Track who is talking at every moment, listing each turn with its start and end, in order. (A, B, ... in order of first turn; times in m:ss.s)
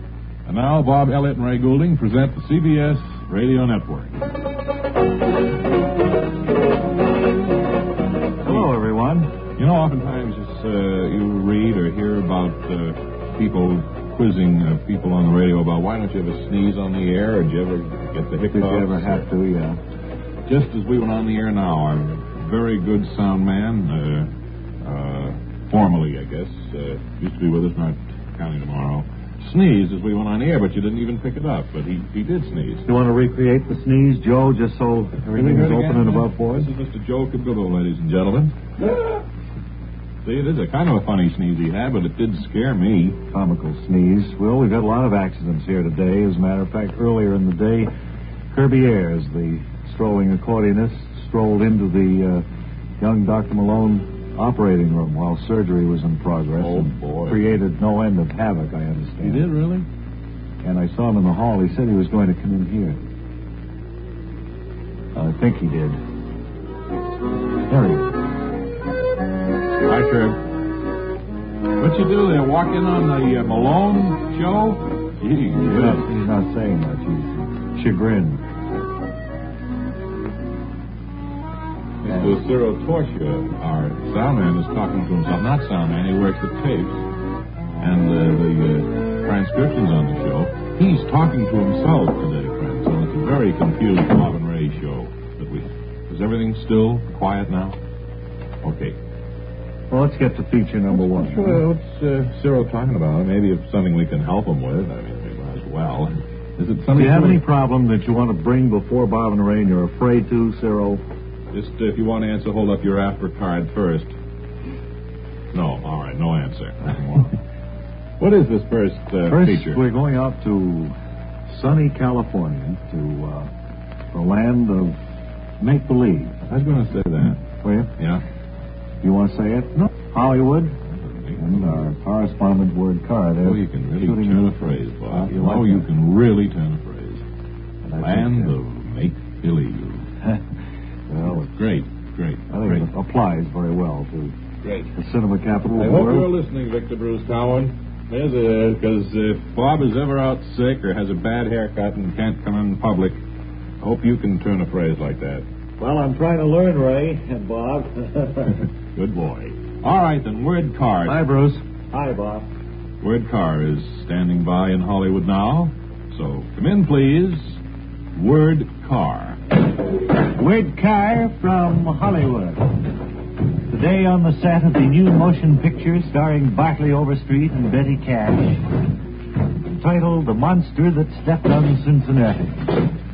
0:00.5-0:04.2 A
0:08.4-0:09.3 B
0:09.6-0:19.2 A
0:18.5-0:19.8 B
0:20.5-0:24.3 A
0:24.8-0:32.8 A
0:32.9-0:36.7 B
0:35.3-0:39.2 A
0:40.2-0:43.2 A
0:43.3-0:47.9 B
0:48.5-0:52.4 B
0:53.0-0:59.5 B
0:56.6-0:57.5 A
0:59.2-0:59.9 A
1:00.6-1:03.0 B
1:05.2-1:06.0 B
1:07.7-1:08.1 B
1:09.8-1:10.4 A
1:11.8-1:16.1 A
1:15.6-1:18.4 B
1:22.0-1:27.1 A
1:22.1-1:22.4 B
1:27.8-1:37.8 A
1:38.6-1:39.0 A
1:39.9-1:41.6 B
1:40.9-1:47.4 A
1:46.9-1:51.0 B
1:51.5-1:54.1 A
1:55.5-1:57.4 A
1:58.2-1:59.8 A
1:59.3-2:01.0 B
2:01.5-2:03.5 B
2:04.1-2:05.0 B
2:05.6-2:06.4 B
2:06.5-2:07.4 A
2:07.6-2:07.9 B
2:09.0-2:10.8 B
2:10.9-2:11.9 A
2:11.4-2:15.9 B
2:13.4-2:17.2 A
2:17.8-2:18.6 B
2:18.0-2:20.1 A
2:21.1-2:21.5 B
2:21.3-2:22.9 A
2:22.5-2:24.3 B
2:24.6-2:24.9 A
2:25.0-2:26.3 B
2:25.8-2:33.2 A
2:33.8-2:35.4 A
2:35.8-2:38.7 B
2:38.9-2:41.2 A
2:41.0-2:42.5 B
2:43.0-2:47.6 A
2:48.2-2:49.4 A
2:50.3-2:52.8 B
2:53.7-2:58.6 B
2:59.7-3:02.8 B